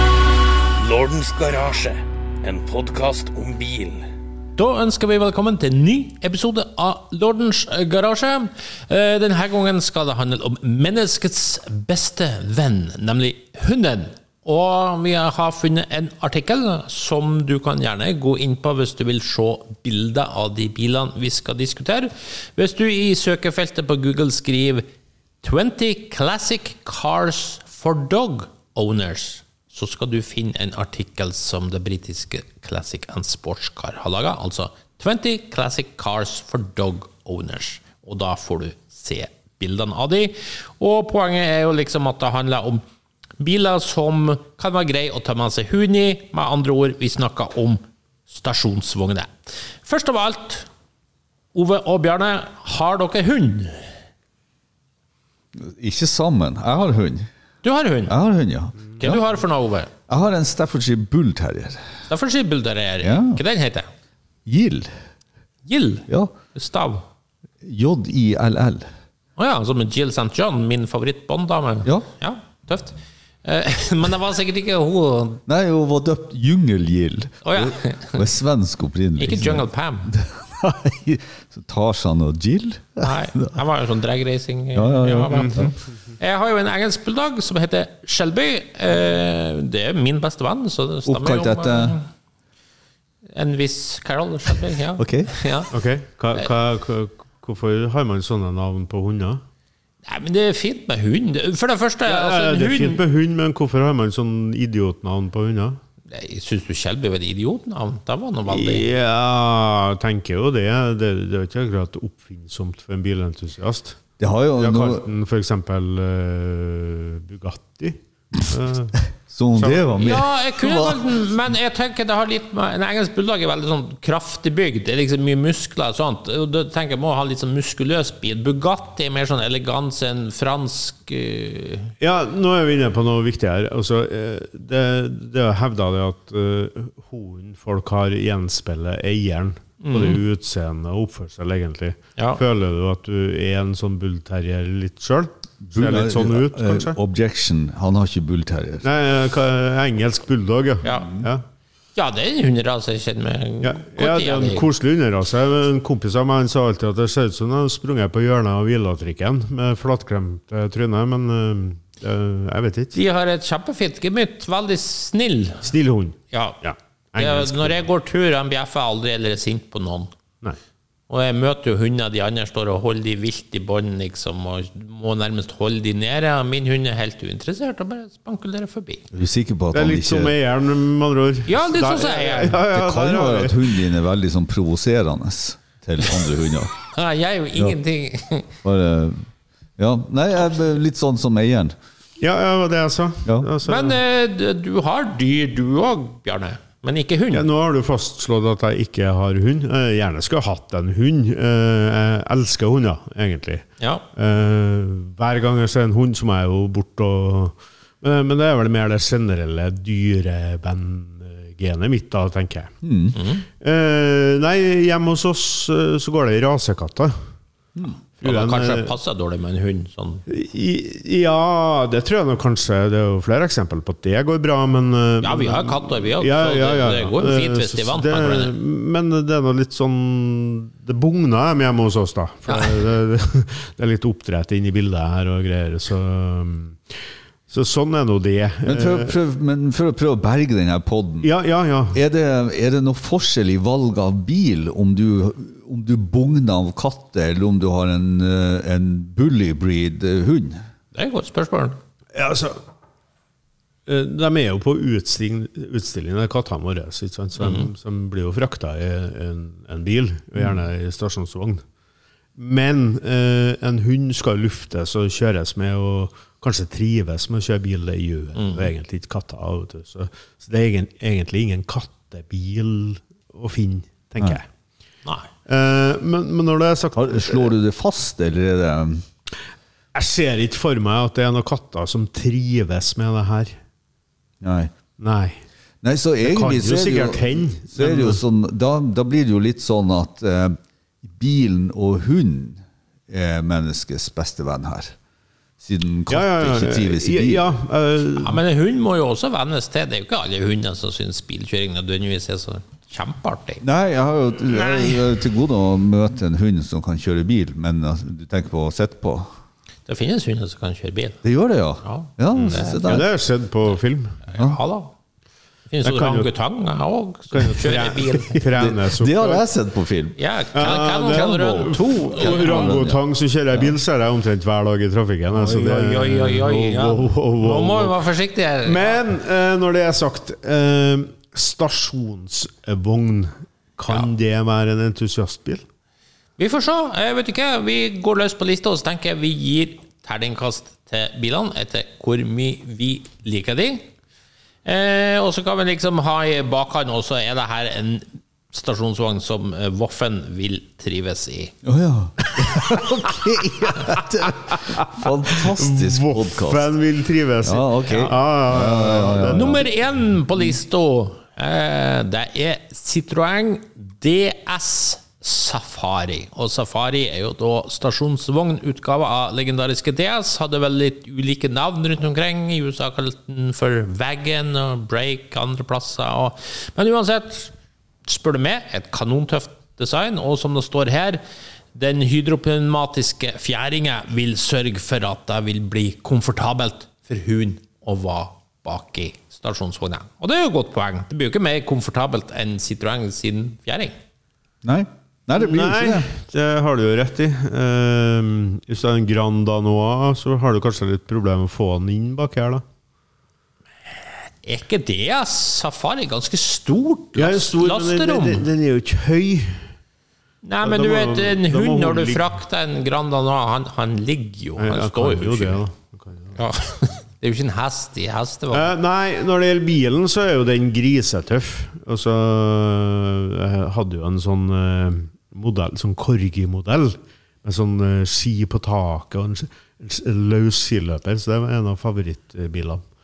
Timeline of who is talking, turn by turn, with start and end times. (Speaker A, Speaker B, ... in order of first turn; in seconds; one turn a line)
Speaker A: 0.8-4.0
Speaker B: 4.5-24.9
Speaker B: 25.4-42.8
Speaker B: 43.4-49.3
Speaker B: 49.8-50.7
Speaker B: 51.5-53.9
Speaker C: 55.5-57.3
Speaker B: 57.6-58.1
Speaker C: 58.1-59.4
Speaker B: 59.0-59.9
Speaker C: 60.1-61.8
Speaker B: 62.1-63.9
Speaker C: 63.0-63.4
Speaker C: 64.5-64.9
Speaker B: 65.7-67.0
Speaker C: 67.6-68.9
Speaker B: 69.4-75.4
Speaker C: 75.5-83.5
Speaker B: 77.4-78.2
Speaker B: 79.2-80.1
Speaker B: 83.0-92.1
Speaker C: 84.7-85.7
Speaker D: 85.3-85.6
Speaker C: 91.0-92.0
Speaker B: 93.3-95.7
Speaker C: 95.0-95.3
Speaker D: 95.7-99.4
Speaker B: 100.0-103.0
Speaker D: 102.0-105.8
Speaker B: 106.1-108.8
Speaker D: 108.5-120.2
Speaker C: 114.2-115.0
Speaker C: 119.3-121.1
Speaker B: 120.0-131.9
Speaker D: 132.0-147.0
Speaker B: 139.8-140.2
Speaker C: 145.6-148.9
Speaker D: 148.8-151.4
Speaker B: 150.8-151.1
Speaker B: 151.9-154.7
Speaker D: 153.6-163.0
Speaker B: 162.9-165.7
Speaker D: 165.6-167.8
Speaker B: 166.3-166.6
Speaker B: 167.2-170.1
Speaker B: 171.1-179.0
Speaker C: 179.1-180.3
Speaker D: 179.7-183.8
Speaker B: 181.5-182.6
Speaker C: 182.7-186.7
Speaker B: 186.9-188.5
Speaker C: 188.6-189.3
Speaker C: 189.8-191.7
Speaker D: 192.2-194.0
Speaker B: 193.6-197.5
Speaker D: 197.3-212.7
Speaker C: 212.8-213.2
Speaker B: 213.2-213.4
Speaker D: 213.6-217.1
Speaker D: 218.2-218.9
Speaker B: 218.2-220.2
Speaker D: 220.3-236.9
Speaker B: 225.2-228.5
Speaker B: 232.5-232.7
Speaker D: 237.5-239.2
Speaker C: 238.6-241.3
Speaker D: 241.2-242.0
Speaker C: 241.9-250.6
Speaker B: 250.9-251.8
Speaker D: 252.1-252.6
Speaker D: 253.9-261.6
Speaker B: 257.4-257.7
Speaker D: 262.4-274.4
Speaker B: 268.4-268.7
Speaker D: 275.5-277.5
Speaker C: 276.9-279.0
Speaker D: 279.9-283.6
Speaker C: 284.4-284.7
Speaker D: 285.0-285.4
Speaker C: 285.8-294.9
Speaker D: 286.2-288.2
Speaker C: 295.6-297.4
Speaker D: 296.1-298.4
Speaker B: 298.2-303.6
Speaker C: 303.6-309.3
Speaker B: 309.9-311.2
Speaker C: 311.2-313.1
Speaker B: 311.8-312.9
Speaker D: 312.4-314.2
Speaker B: 314.3-314.9
Speaker B: 315.7-318.4
Speaker D: 315.8-316.3
Speaker D: 317.3-319.4
Speaker C: 318.5-323.0
Speaker B: 320.2-323.0
Speaker D: 320.5-328.1
Speaker B: 325.3-329.0
Speaker D: 328.6-335.6
Speaker B: 336.4-343.9
Speaker B: 344.6-351.5
Speaker C: 351.6-356.7
Speaker D: 354.6-359.6
Speaker C: 357.4-359.6
Speaker B: 359.3-377.5
Speaker B: 378.1-381.2
Speaker B: 381.7-393.9
Speaker C: 394.6-396.1
Speaker D: 395.3-402.6
Speaker B: 404.4-408.5
Speaker D: 407.1-409.6
Speaker B: 410.4-415.6
Speaker D: 410.6-412.4
Speaker D: 414.6-416.3
Speaker B: 416.4-418.7
Speaker D: 418.5-432.8